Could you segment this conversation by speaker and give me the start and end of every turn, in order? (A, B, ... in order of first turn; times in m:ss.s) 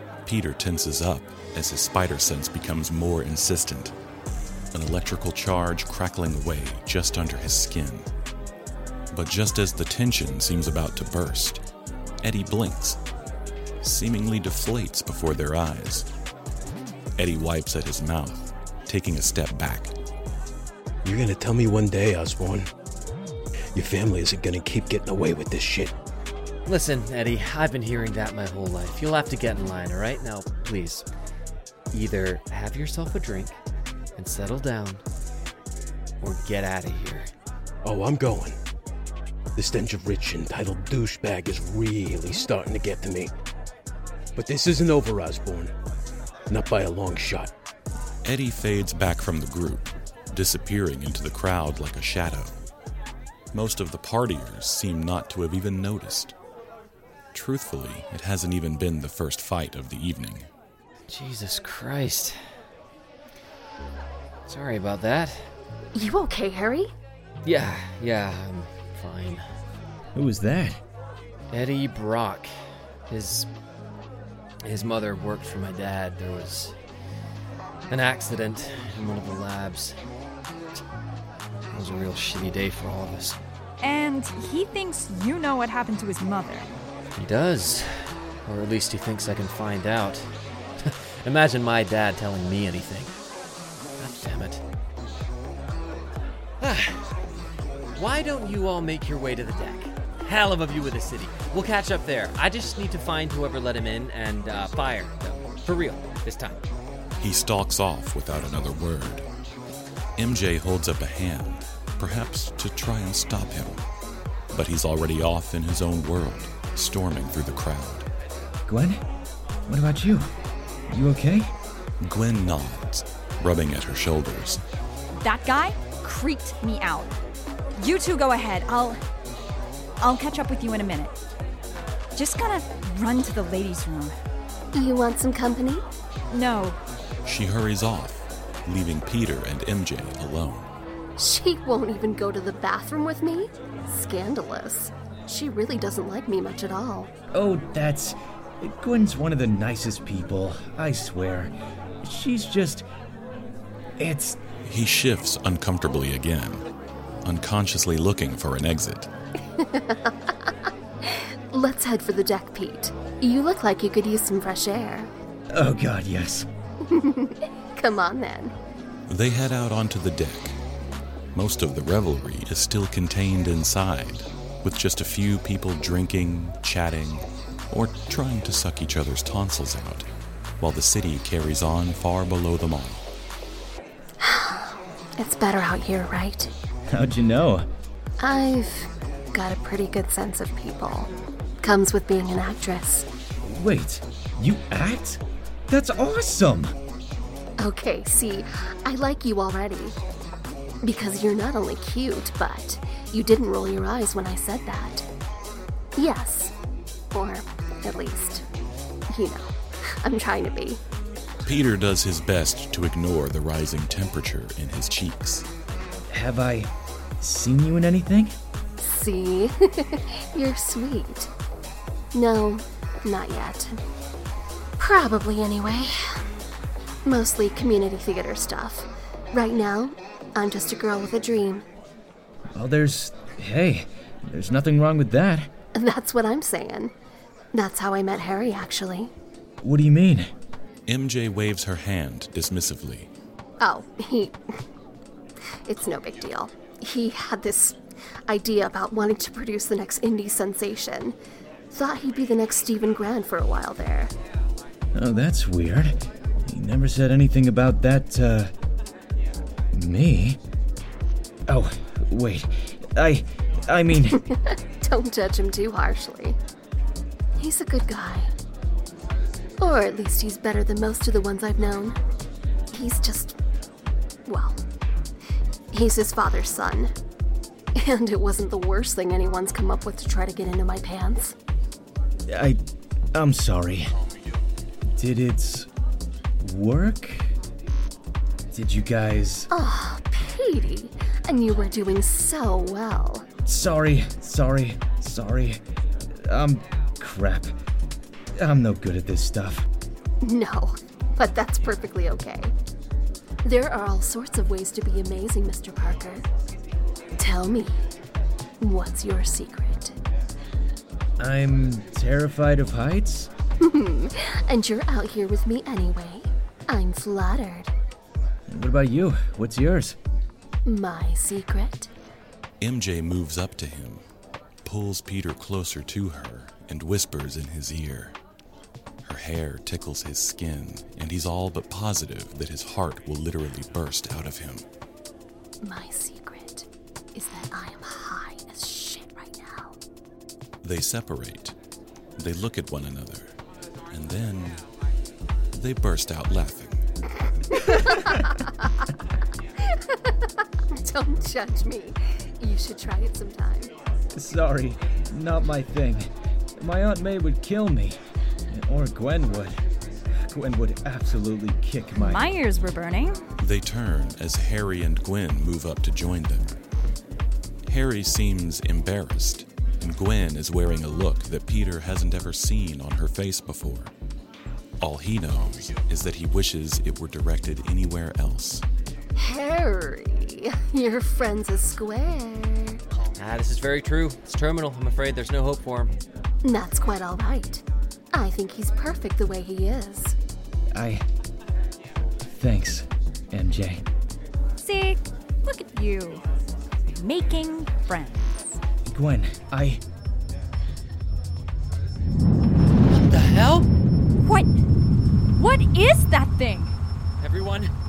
0:00.2-0:03.9 A
0:04.7-0:08.1 A
0:09.1-0:11.6 A
0:12.2-0:13.0 A
0:13.8-0:16.0 A
0:17.2-0:19.9 A
0:21.0-0:22.7 B
0:23.7-0:25.9 B
0:26.6-0:31.0 C
0:31.9-0:33.6 C
0:34.2-0:35.0 C
0:36.2-0:37.3 C
0:37.8-0:38.6 B
0:39.6-0:43.3 B
0:44.4-0:45.7 B
0:46.5-0:47.5 B
0:48.2-0:52.6 A
0:53.5-0:56.3 A
0:57.3-1:00.5 A
1:01.1-1:02.6 C
1:04.5-1:05.5 C
1:05.9-1:06.9 D
1:07.4-1:09.4 C
1:10.1-1:10.8 E
1:11.5-1:12.6 C
1:13.1-1:13.5 C
1:14.6-1:16.7 C
1:17.9-1:20.0 C
1:21.7-1:23.4 C
1:23.8-1:26.8 F
1:27.2-1:33.1 C
1:34.0-1:34.6 C
1:36.6-1:37.1 C
1:37.9-1:46.6 C
1:47.2-1:49.2 A
1:50.2-1:53.8 A
1:54.5-1:58.0 A
1:58.7-1:59.0 E
1:59.7-2:00.3 E
2:00.9-2:01.5 E
2:02.0-2:04.6 A
2:05.2-2:07.1 F
2:07.8-2:09.0 F
2:10.0-2:11.1 F
2:12.1-2:14.2 F
2:14.7-2:15.8 D
2:16.3-2:16.8 F
2:17.2-2:20.7 A
2:21.2-2:27.1 D
2:27.3-2:32.8 E
2:34.0-2:34.4 E
2:34.6-2:36.6 A
2:37.2-2:39.1 A
2:39.6-2:40.1 D
2:41.1-2:45.1 D
2:45.5-2:46.4 E
2:46.9-2:48.5 D
2:49.1-2:50.6 A
2:51.3-3:00.0 A
3:00.6-3:03.0 A
3:04.2-3:06.5 D
3:06.9-3:07.7 E
3:08.2-3:11.1 D
3:11.6-3:13.0 D
3:13.4-3:16.8 E
3:17.6-3:20.0 D
3:20.8-3:25.0 D
3:26.0-3:26.5 D
3:27.1-3:28.4 D
3:29.1-3:29.5 D
3:30.0-3:30.8 D
3:31.4-3:35.4 A
3:36.1-3:38.4 E
3:38.8-3:41.3 D
3:42.1-3:43.7 D
3:44.8-3:46.2 D
3:47.0-3:51.6 D
3:52.5-3:55.5 E
3:55.7-3:56.9 D
3:57.5-3:59.1 D
3:59.6-4:00.3 E
4:00.9-4:03.1 A
4:03.6-4:04.4 D
4:05.6-4:11.1 D
4:11.7-4:14.1 D
4:14.9-4:18.5 E
4:19.7-4:20.4 E
4:21.5-4:24.2 E
4:24.2-4:26.4 D
4:27.4-4:28.3 D
4:29.6-4:32.0 D
4:32.7-4:33.3 D
4:34.3-4:34.6 D
4:35.7-4:36.9 D
4:37.8-4:41.3 D
4:42.3-4:42.6 E
4:43.1-4:43.9 E
4:44.9-4:45.7 E
4:46.4-4:47.3 E
4:48.5-4:49.5 E
4:49.5-4:53.2 D
4:53.4-4:57.5 E
4:58.4-4:59.7 E
5:00.2-5:02.5 D
5:03.4-5:06.2 D
5:07.2-5:07.8 D
5:08.6-5:09.9 D
5:11.2-5:13.3 E
5:13.6-5:17.7 D
5:18.5-5:20.0 E
5:20.6-5:21.9 D
5:22.6-5:24.0 A
5:24.6-5:28.2 A
5:29.0-5:34.6 A
5:35.6-5:39.8 D
5:40.6-5:41.5 A
5:42.2-5:43.3 A
5:43.9-5:44.6 A
5:45.5-5:46.8 A
5:47.5-5:48.4 D
5:50.7-5:53.7 D
5:54.1-5:58.0 E
5:58.5-6:02.3 E
6:02.0-6:03.2 F
6:03.4-6:06.6 A
6:07.7-6:13.9 A
6:14.8-6:18.6 A
6:19.2-6:22.8 D
6:23.2-6:26.0 C
6:26.4-6:27.6 D
6:28.1-6:30.2 D
6:30.7-6:31.0 E
6:32.3-6:33.8 E
6:34.6-6:36.2 F
6:36.9-6:38.6 F
6:38.8-6:39.8 E
6:42.9-6:43.7 C
6:44.2-6:44.5 F
6:45.3-6:46.8 F
6:47.2-6:47.7 C